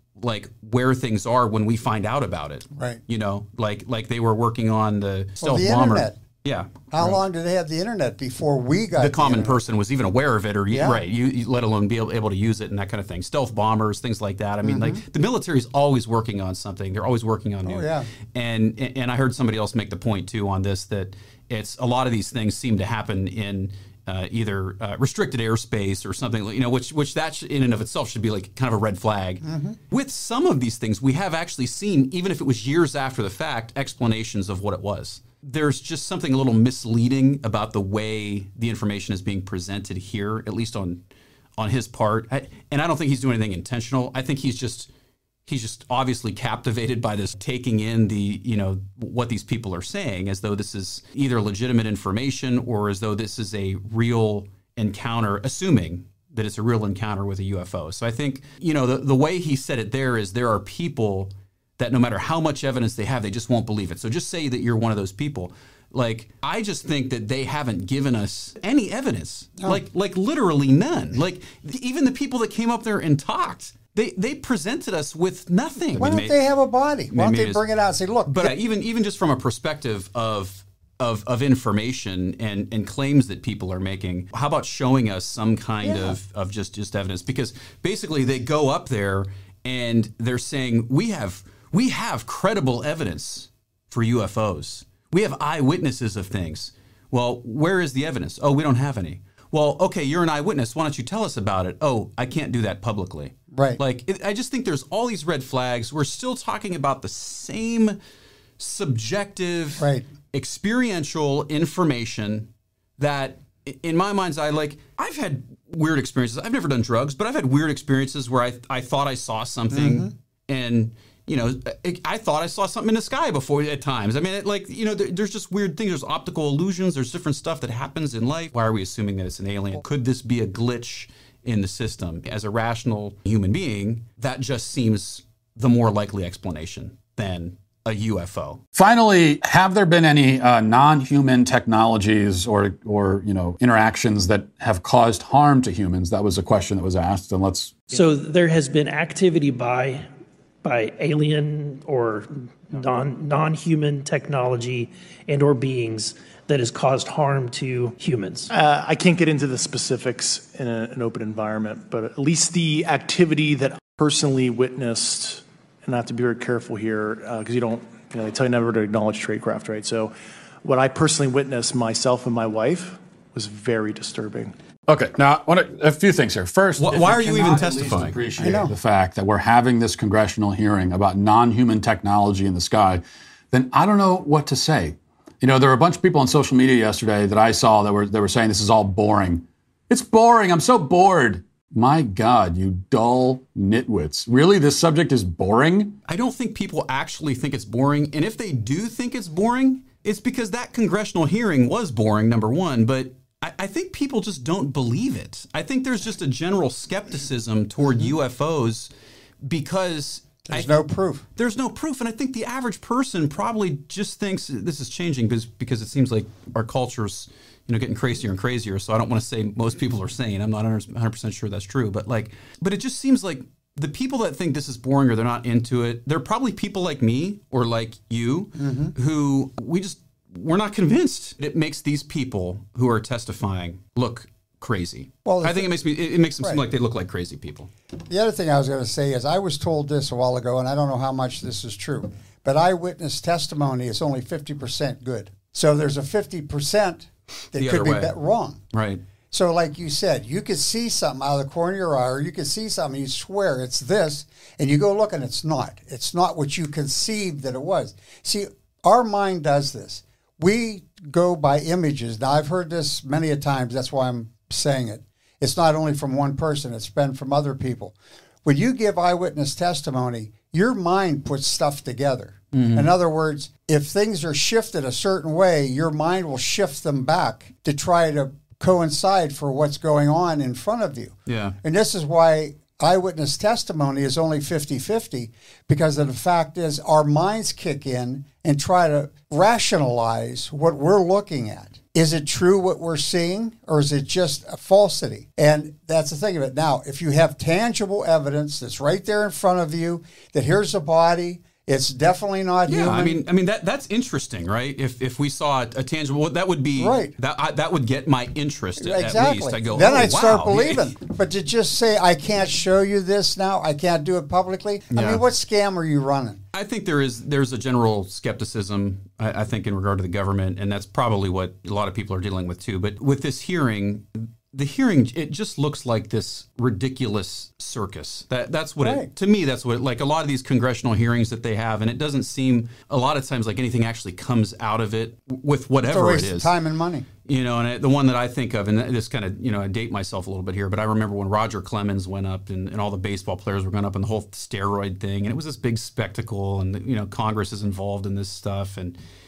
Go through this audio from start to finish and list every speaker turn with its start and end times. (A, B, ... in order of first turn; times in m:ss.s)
0:00.2-0:07.2 A
0:02.7-0:03.0 B
0:05.4-0:06.2 B
0:06.9-0:09.6 B
0:09.0-0:41.0 A
0:10.7-0:11.0 B
0:14.6-0:15.0 B
0:17.6-0:18.1 B
0:29.4-0:29.8 B
0:41.6-0:44.9 A
0:45.4-1:16.4 A
1:15.9-1:18.5 B
1:17.1-1:17.6 A
1:18.2-1:48.0 A
1:25.8-1:26.2 B
1:43.5-1:43.8 B
1:48.6-2:18.6 A
1:49.8-1:50.1 B
1:59.7-2:00.1 B
2:18.7-2:27.8 C
2:27.9-2:30.1 D
2:30.6-2:38.5 D
2:38.5-2:54.5 E
2:54.9-3:16.0 C
2:56.8-2:58.2 A
2:58.4-2:58.7 B
3:16.1-3:28.9 A
3:27.8-3:28.1 B
3:29.4-3:30.7 A
3:30.5-3:31.2 B
3:31.4-3:57.7 A
3:48.5-3:48.9 B
3:55.2-3:55.7 B
3:58.1-4:08.6 B
4:07.5-4:08.2 A
4:08.7-4:09.0 A
4:09.3-5:03.2 B
4:32.5-4:32.9 A
4:41.3-4:41.6 A
5:02.7-5:10.9 A
5:06.8-5:07.1 B
5:08.8-5:16.4 B
5:14.9-5:15.2 A
5:16.5-5:36.5 A
5:28.8-5:29.1 B
5:35.9-5:37.1 B
5:37.2-5:49.0 A